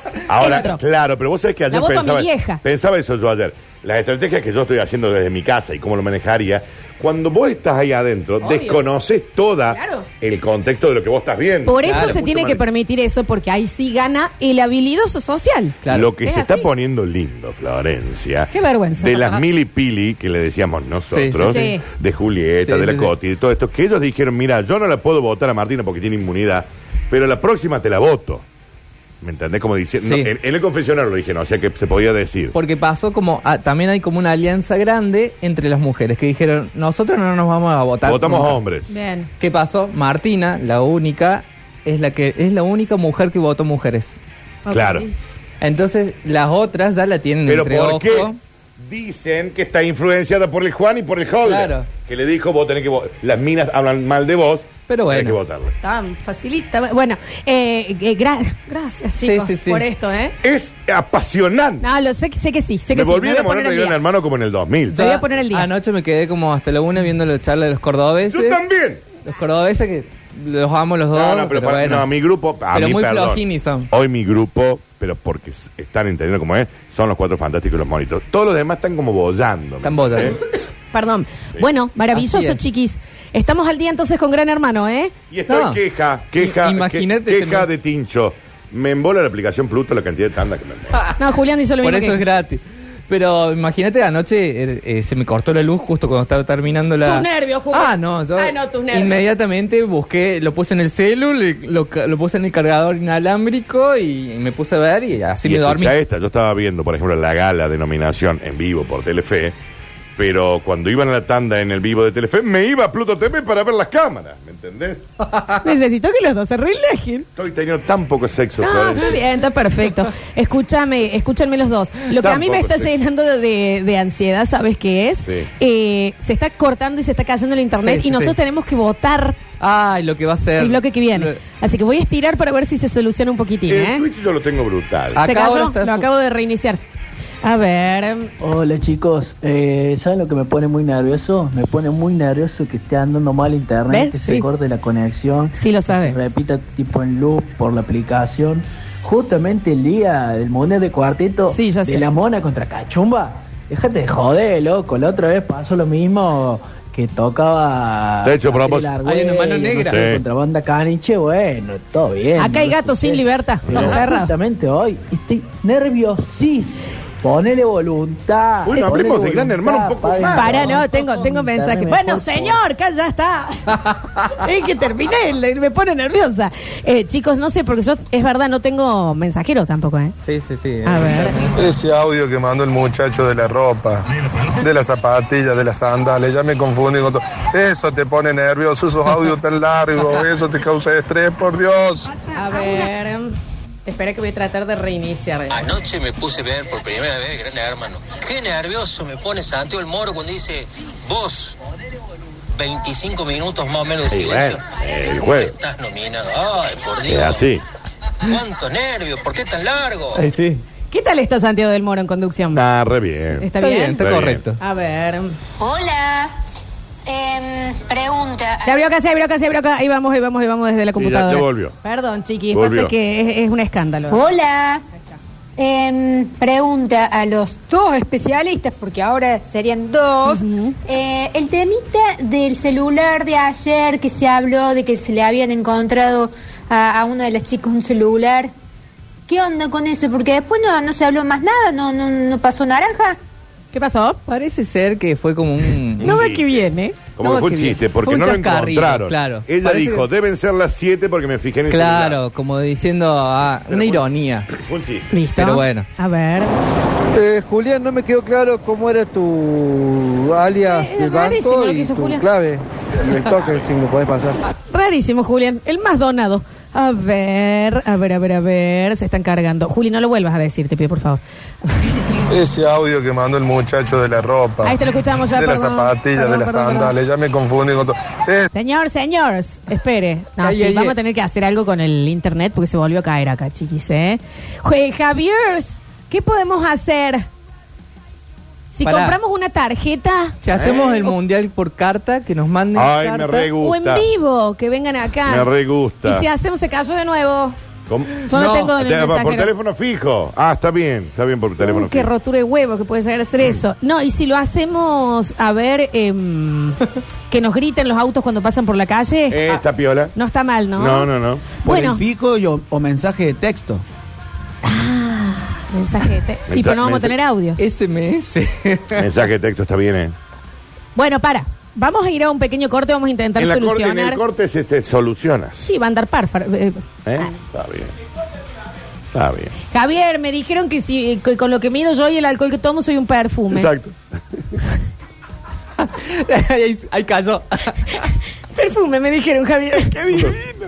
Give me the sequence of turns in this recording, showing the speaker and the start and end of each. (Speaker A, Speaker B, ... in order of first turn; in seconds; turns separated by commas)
Speaker A: 0.3-12.6, Speaker B: 0.3-0.8, Speaker B: 1.7-2.6, Speaker B: 8.4-8.8, Speaker B: 9.7-10.1, Speaker B: 11.7-16.7, Speaker C: 11.8-12.2, Speaker C: 15.8-16.1, Speaker A: 15.9-28.4, Speaker B: 18.5-19.4, Speaker C: 21.1-21.7, Speaker B: 21.4-21.8, Speaker C: 22.6-23.1, Speaker A: 29.2-32.5, Speaker C: 30.0-30.3, Speaker C: 32.5-38.6, Speaker A: 38.0-38.9, Speaker B: 38.9-39.3, Speaker C: 39.4-44.2, Speaker B: 44.6-45.2, Speaker A: 44.7-45.0, Speaker C: 45.6-48.4, Speaker A: 47.5-55.7, Speaker C: 51.4-51.9, Speaker C: 54.9-55.4, Speaker B: 55.8-60.3, Speaker C: 59.2-59.8, Speaker A: 60.4-61.8, Speaker B: 61.8-64.0, Speaker A: 62.9-65.0, Speaker B: 64.9-65.7, Speaker C: 64.9-68.6, Speaker A: 68.3-69.0, Speaker C: 69.2-72.1, Speaker A: 71.1-80.3, Speaker C: 72.7-73.9, Speaker C: 79.8-80.4, Speaker B: 80.9-85.1, Speaker C: 82.1-82.7, Speaker A: 85.3-91.0, Speaker C: 85.5-85.8, Speaker C: 86.3-87.7, Speaker B: 91.2-92.2, Speaker C: 91.8-106.0, Speaker B: 97.0-99.2, Speaker A: 105.4-109.5, Speaker A: 110.2-115.0, Speaker B: 115.6-117.2, Speaker A: 117.3-119.1, Speaker B: 118.6-129.4, Speaker A: 122.1-122.9, Speaker A: 125.2-125.5, Speaker C: 127.8-128.3, Speaker C: 129.6-131.4, Speaker B: 130.6-134.0, Speaker A: 133.7-135.2, Speaker C: 135.1-136.1, Speaker B: 135.2-136.8, Speaker B: 137.4-138.3, Speaker D: 138.4-172.6, Speaker B: 143.9-144.4, Speaker B: 145.6-146.2, Speaker B: 151.5-152.1, Speaker A: 158.2-159.0, Speaker C: 159.0-160.0, Speaker A: 159.8-160.2, Speaker B: 162.4-164.3, Speaker A: 163.7-164.0, Speaker A: 168.6-170.8, Speaker B: 170.3-173.8, Speaker B: 174.3-180.2, Speaker C: 180.2-181.6, Speaker B: 180.8-181.4, Speaker E: 181.6-184.1, Speaker E: 184.6-192.1, Speaker B: 192.3-193.3, Speaker B: 193.8-195.6, Speaker F: 195.5-201.6, Speaker F: 202.5-204.7, Speaker A: 204.1-205.6, Speaker F: 205.2-207.5, Speaker A: 207.1-207.6, Speaker F: 208.2-210.2, Speaker C: 210.1-210.6, Speaker B: 210.9-212.6, Speaker A: 212.5-214.4, Speaker B: 213.4-214.1, Speaker C: 213.6-214.6, Speaker B: 214.6-215.3, Speaker G: 215.6-216.3, Speaker G: 217.1-218.8, Speaker B: 218.6-224.2, Speaker A: 220.9-221.7, Speaker A: 222.5-222.9, Speaker G: 224.1-224.8, Speaker G: 225.6-238.5, Speaker B: 230.2-230.8, Speaker G: 239.3-243.2, Speaker B: 243.7-244.2, Speaker C: 244.3-246.2, Speaker B: 246.0-247.0, Speaker A: 246.0-246.6, Speaker A: 247.2-252.2, Speaker C: 247.2-250.1, Speaker C: 251.7-254.5, Speaker A: 253.7-255.1, Speaker B: 255.1-256.5, Speaker C: 255.3-255.9, Speaker H: 257.1-264.4, Speaker B: 260.6-262.2, Speaker A: 263.3-263.7, Speaker B: 264.7-271.2, Speaker E: 272.3-274.8, Speaker B: 274.6-276.9, Speaker E: 275.3-278.5, Speaker B: 278.5-287.3, Speaker C: 280.4-280.9, Speaker B: 288.7-290.4, Speaker C: 288.8-289.2, Speaker C: 290.4-293.5, Speaker A: 290.5-291.1, Speaker A: 292.7-294.1, Speaker B: 293.4-295.5, Speaker A: 295.2-296.2, Speaker B: 296.0-297.6, Speaker A: 297.9-302.1, Speaker B: 298.3-299.5, Speaker C: 298.3-298.7, Speaker B: 301.6-306.8, Speaker B: 307.3-309.6, Speaker A: 309.3-310.1, Speaker B: 310.1-311.1, Speaker A: 310.8-311.6, Speaker I: 311.6-313.8, Speaker B: 311.6-312.0, Speaker B: 314.6-317.6, Speaker A: 316.5-317.1, Speaker C: 317.6-319.1, Speaker A: 318.9-320.1, Speaker B: 320.9-324.2, Speaker A: 323.4-325.7, Speaker B: 325.6-327.3, Speaker A: 327.0-327.9, Speaker A: 329.1-329.5, Speaker B: 329.7-333.7, Speaker A: 333.5-333.9, Speaker C: 335.8-338.1, Speaker B: 338.5-340.3